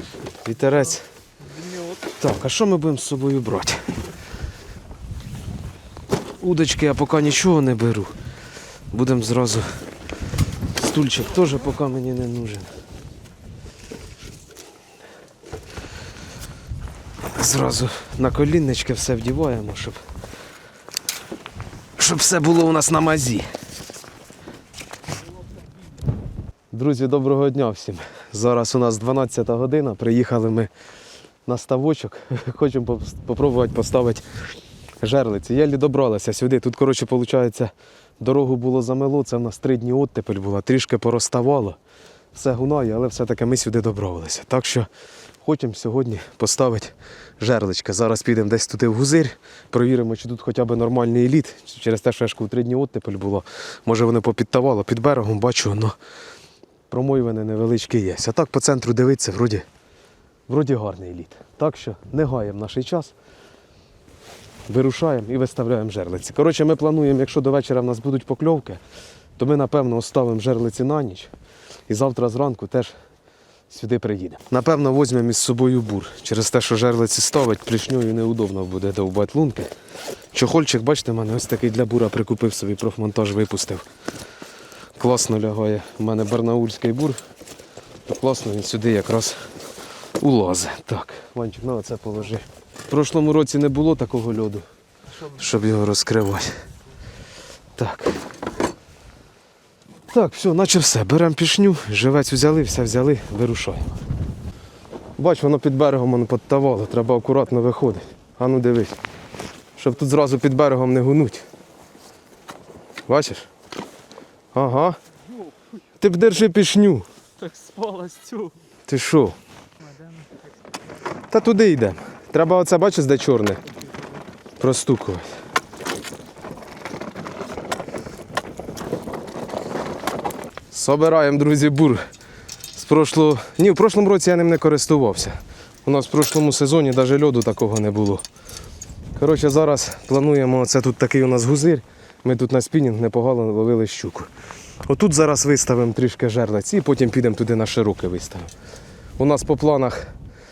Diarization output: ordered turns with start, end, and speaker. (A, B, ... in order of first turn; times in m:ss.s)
0:00.4-0:01.0 A
0:00.6-0:02.1 B
0:02.2-0:03.9 A
0:06.4-0:08.1 A
0:08.9-0:09.7 A
0:10.8-0:12.7 A
0:17.3-0:20.0 A
0:22.0-0:23.5 A
0:26.7-0:30.7 A
0:31.5-0:34.2 A
0:35.0-0:41.8 A
0:42.3-0:44.9 A
0:45.4-0:56.0 A
0:56.9-0:59.6 A
1:00.5-1:03.1 A
1:04.7-1:08.8 A
1:09.4-1:11.3 A
1:11.9-1:12.9 A
1:13.7-1:19.7 A
1:20.3-1:23.8 A
1:25.0-1:27.2 A
1:28.1-1:29.4 A
1:30.2-1:34.6 A
1:35.0-1:35.7 B
1:35.4-1:36.6 A
1:37.8-1:38.2 A
1:40.1-1:44.0 A
1:45.2-1:49.0 A
1:49.8-1:51.4 A
1:53.1-1:53.5 A
1:54.5-1:55.0 A
1:55.2-1:55.8 B
1:56.0-1:57.0 A
1:57.4-1:58.6 B
1:58.9-1:59.4 A
1:59.8-2:01.0 B
2:01.3-2:03.6 A
2:03.8-2:04.1 B
2:04.6-2:05.3 A
2:10.7-2:12.0 A
2:12.7-2:18.2 A
2:19.2-2:24.3 A
2:24.9-2:28.5 A
2:29.2-2:30.1 A